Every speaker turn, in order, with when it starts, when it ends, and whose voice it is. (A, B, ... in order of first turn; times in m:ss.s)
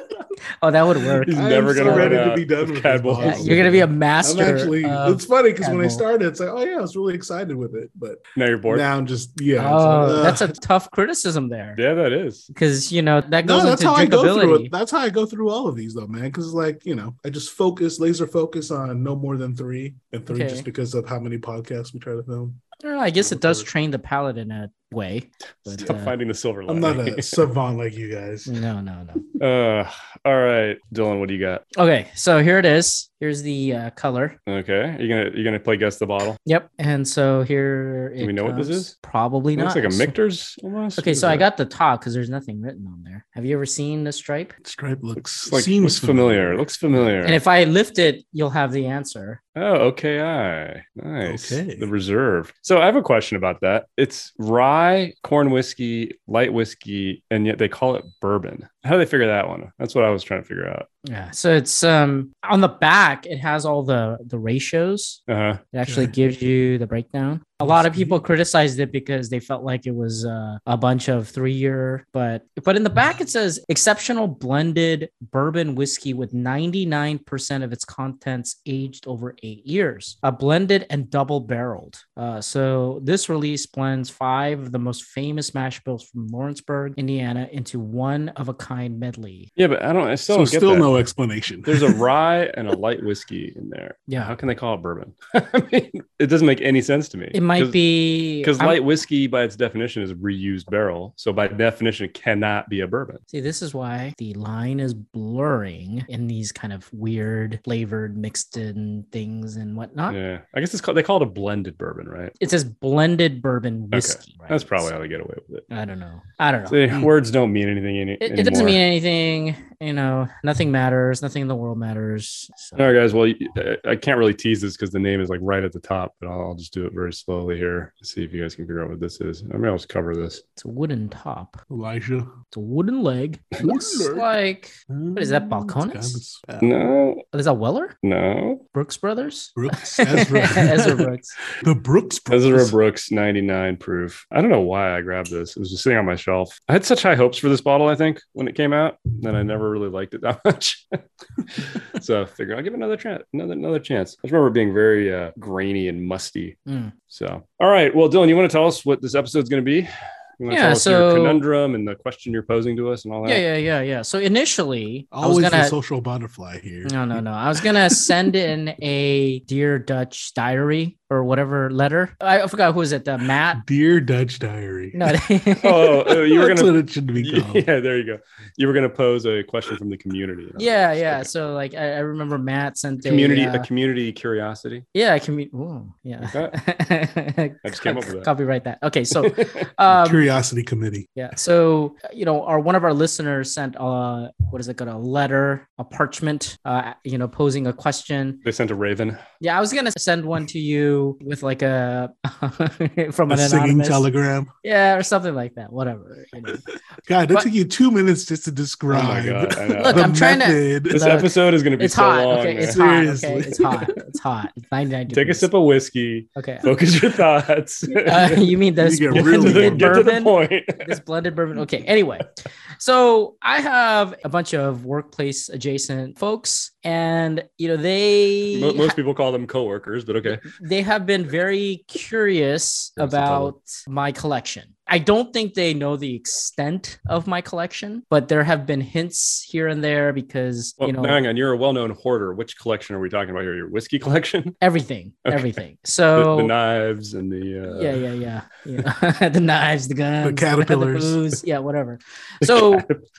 0:00.6-0:02.3 A
0:01.3-0:10.5 B
0:01.3-0:03.7 C
0:03.2-0:06.0 A
0:08.4-0:08.9 C
0:09.6-0:11.8 A
0:11.8-0:12.5 C
0:12.5-0:14.7 A
0:13.4-0:22.6 B
0:20.3-0:20.7 A
0:22.8-0:26.1 A
0:23.2-0:23.7 B
0:25.7-0:27.4 C
0:26.7-0:28.5 B
0:28.5-0:29.2 A
0:29.4-0:31.6 C
0:31.8-0:34.4 A
0:34.5-0:36.4 C
0:36.5-0:40.2 A
0:38.2-0:38.9 C
0:39.6-0:41.5 C
0:41.0-0:44.6 A
0:44.6-0:47.1 B
0:45.4-0:47.4 C
0:47.2-0:49.4 A
0:49.6-1:00.9 C
0:51.2-0:51.9 B
1:01.0-1:05.2 A
1:05.3-1:05.6 C
1:05.7-1:29.5 A
1:05.9-1:06.1 B
1:07.6-1:08.2 B
1:29.6-1:30.9 C
1:30.3-1:32.0 B
1:31.7-1:37.8 C
1:34.1-1:34.3 A
1:37.3-1:38.8 A
1:38.4-1:43.2 C
1:43.3-1:50.2 A
1:50.1-1:52.4 C
1:52.4-1:54.9 A
1:53.9-1:55.6 C
1:55.7-1:56.8 A
1:56.7-1:58.8 C
1:58.2-2:02.9 A
2:02.8-2:10.4 C
2:10.6-2:11.6 A
2:11.7-2:12.3 B
2:12.5-2:16.2 A
2:13.6-2:14.3 B
2:14.9-2:16.7 B
2:16.6-2:17.2 C
2:17.3-2:18.0 A
2:18.0-2:18.6 C
2:18.7-2:21.4 A
2:19.6-2:22.8 B
2:22.3-2:36.6 C
2:36.7-2:36.9 A
2:37.1-2:43.4 C
2:40.5-2:41.4 A
2:43.2-2:45.8 A
2:45.1-2:48.1 B
2:46.8-2:53.6 A
2:53.5-2:55.2 B
2:54.9-2:56.1 A
2:55.6-3:01.3 C
2:56.1-2:57.6 B
3:00.6-3:03.7 A
3:03.0-3:04.8 C
3:04.9-3:10.2 A
3:06.2-3:06.6 C
3:07.6-3:08.3 C
3:09.2-3:09.7 C
3:09.9-3:11.1 B
3:11.2-3:18.4 A
3:18.4-3:19.2 C
3:19.4-3:24.1 A
3:23.3-3:24.5 B
3:24.6-3:26.6 A
3:27.1-3:31.2 B
3:28.9-3:30.1 C
3:29.8-3:35.5 A
3:30.9-3:32.8 C
3:32.6-3:33.9 B
3:35.1-3:38.4 C
3:36.4-3:36.7 A
3:38.0-3:49.0 A
3:38.8-3:40.0 B
3:39.1-3:41.0 C
3:48.5-3:50.5 C
3:50.3-4:01.2 A
3:53.0-3:53.6 C
4:00.8-4:04.6 C
4:04.6-4:06.5 A
4:06.2-4:08.0 C
4:07.7-4:12.9 A
4:10.2-4:11.2 B
4:12.4-4:13.0 C